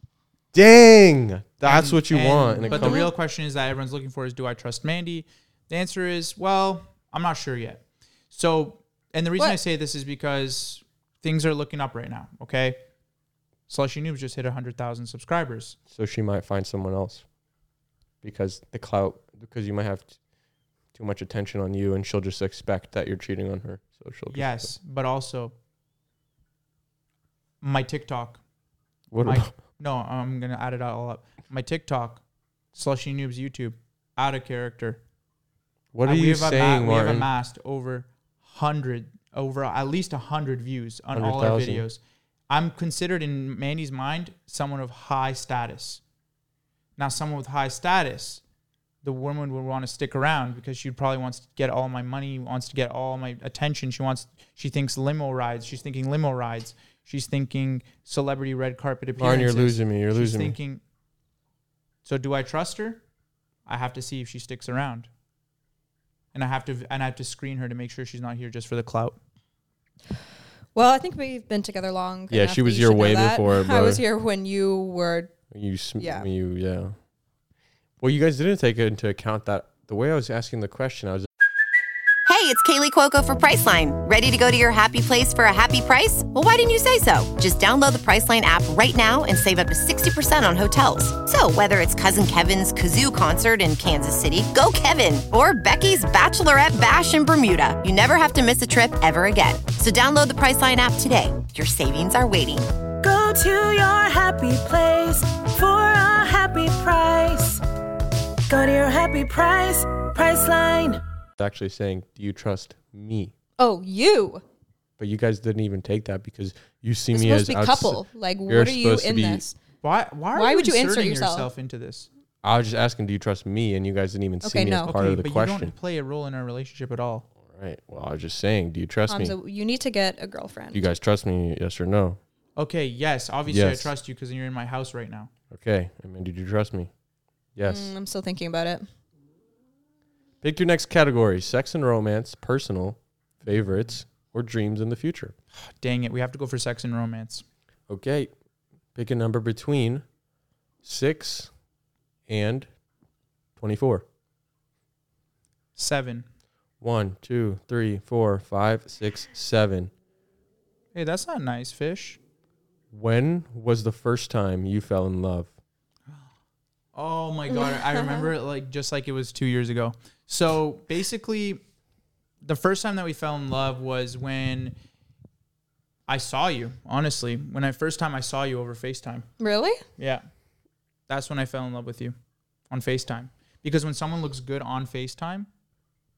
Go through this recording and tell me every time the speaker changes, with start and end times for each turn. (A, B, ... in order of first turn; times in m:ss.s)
0:00.5-0:03.0 A
0:01.6-0:12.8 B
0:02.7-0:03.1 C
0:13.7-0:15.8 B
0:15.9-0:17.2 A
0:18.2-0:20.1 A
0:20.9-0:24.6 A
0:24.3-0:25.5 B
0:27.6-0:28.4 B
0:29.1-0:29.5 A
0:29.2-0:32.2 B
0:32.7-0:35.0 B
0:35.9-0:37.3 A
0:36.0-0:46.0 B
0:41.1-0:41.8 A
0:47.0-0:48.4 B
0:49.0-1:00.8 B
0:59.2-1:00.5 A
1:02.0-1:03.0 B
1:03.6-1:05.1 B
1:06.3-1:09.2 B
1:10.7-1:15.3 C
1:12.3-1:14.0 A
1:15.5-1:17.0 A
1:16.0-1:16.2 C
1:18.0-1:21.3 A
1:22.2-1:42.7 D
1:43.0-1:47.6 E
1:48.5-1:51.0 E
1:51.4-1:53.3 A
1:53.6-1:54.4 C
1:55.0-1:59.4 A
1:57.1-1:59.5 C
1:59.8-2:02.1 B
2:00.3-2:01.5 C
2:02.4-2:05.7 A
2:04.4-2:04.9 C
2:04.8-2:07.3 B
2:07.4-2:09.4 A
2:09.1-2:10.8 C
2:10.7-2:12.2 A
2:12.6-2:15.3 B
2:13.5-2:13.9 A
2:15.5-2:16.9 A
2:17.6-2:17.9 A
2:17.6-2:18.8 C
2:20.4-2:25.3 A
2:25.6-2:27.4 B
2:27.9-2:28.3 A
2:28.9-2:30.0 A
2:30.8-2:31.5 A
2:32.3-2:32.7 A
2:33.6-2:34.0 A
2:35.8-2:36.2 B
2:36.8-2:39.9 A
2:40.9-2:42.2 B
2:42.9-2:45.5 A
2:46.9-2:51.6 B
2:47.5-2:48.3 C
2:52.4-2:54.7 B
2:56.1-2:59.2 B
2:59.4-2:59.8 C
3:00.0-3:00.2 B
3:01.1-3:02.1 B
3:02.7-3:05.5 B